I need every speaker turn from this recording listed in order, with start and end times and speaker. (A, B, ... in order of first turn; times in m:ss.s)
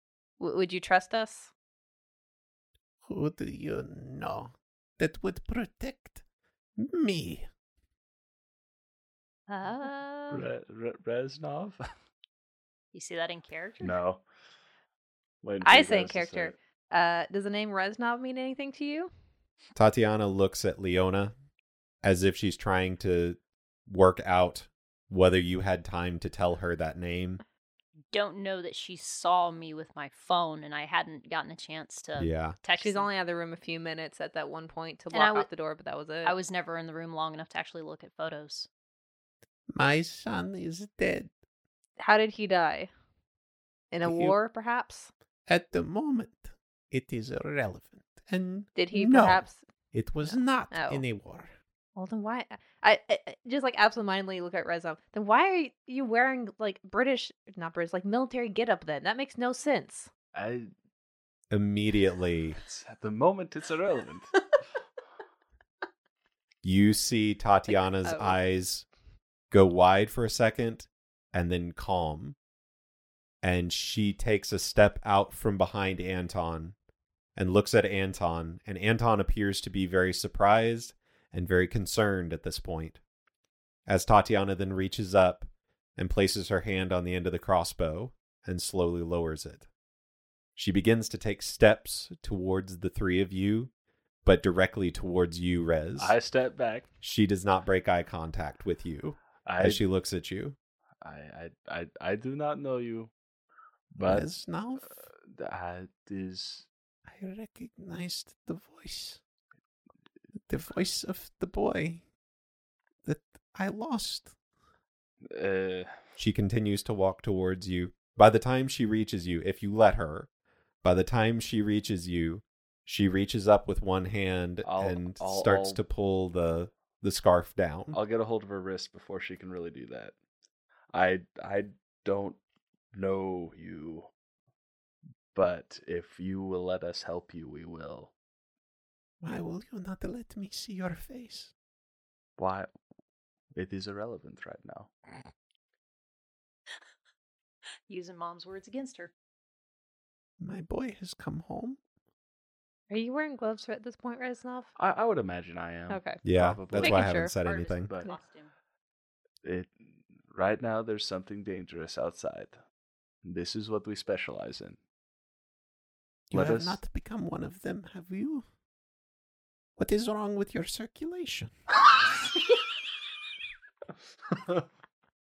0:00.4-0:01.5 A
0:03.1-0:06.2 B
0:06.8-0:07.4 B
0:09.5-0:10.4 A
0:09.6-0:10.0 C
0:10.3-0:11.8 D
0:12.9-0:14.0 C
0:13.8-0:14.2 D
0:15.4-0:16.6 D
0:15.6-0:19.1 A
0:19.7-0:21.3 E
0:22.0-0:27.4 E
0:28.1-0:33.1 C
0:32.2-0:32.6 E
0:32.8-0:36.3 A
0:35.1-0:35.5 C
0:36.2-0:38.7 C
0:39.7-0:41.3 B
0:42.0-0:42.9 A
0:43.9-0:45.1 A
0:44.0-0:44.3 B
0:45.5-0:51.5 B
0:48.8-0:49.6 A
0:50.2-0:51.0 A
0:52.0-1:00.1 A
1:00.3-1:00.7 D
1:01.5-1:02.6 E
1:02.6-1:04.3 D
1:06.6-1:08.8 E
1:07.7-1:08.4 A
1:09.5-1:12.4 E
1:13.4-1:16.7 E
1:17.4-1:23.0 E
1:23.9-1:29.7 E
1:30.6-1:33.7 E
1:34.2-1:36.2 E
1:36.0-1:36.9 D
1:37.0-1:40.6 E
1:39.4-1:39.8 D
1:41.0-1:43.1 D
1:43.9-1:44.3 D
1:44.0-1:45.0 B
1:45.0-1:46.7 D
1:47.0-1:49.2 B
1:50.5-1:52.0 B
1:53.0-1:54.3 B
1:55.3-1:56.0 D
1:56.2-2:00.3 E
2:00.8-2:08.0 E
2:04.6-2:05.8 D
2:07.9-2:10.1 D
2:10.9-2:12.4 D
2:12.9-2:14.1 D
2:15.3-2:18.1 D
2:19.2-2:21.5 B
2:22.4-2:22.7 D
2:23.5-2:24.9 D
2:27.9-2:29.1 C
2:30.4-2:31.8 B
2:32.9-2:34.7 A
2:34.8-2:37.2 D
2:35.9-2:36.2 A
2:36.2-2:37.9 E
2:36.8-2:37.3 A
2:37.2-2:38.5 C
2:39.4-2:42.6 D
2:43.2-2:44.8 D
2:46.3-2:48.4 B
2:46.3-2:46.8 D
2:49.8-2:51.5 B
2:54.3-2:54.6 D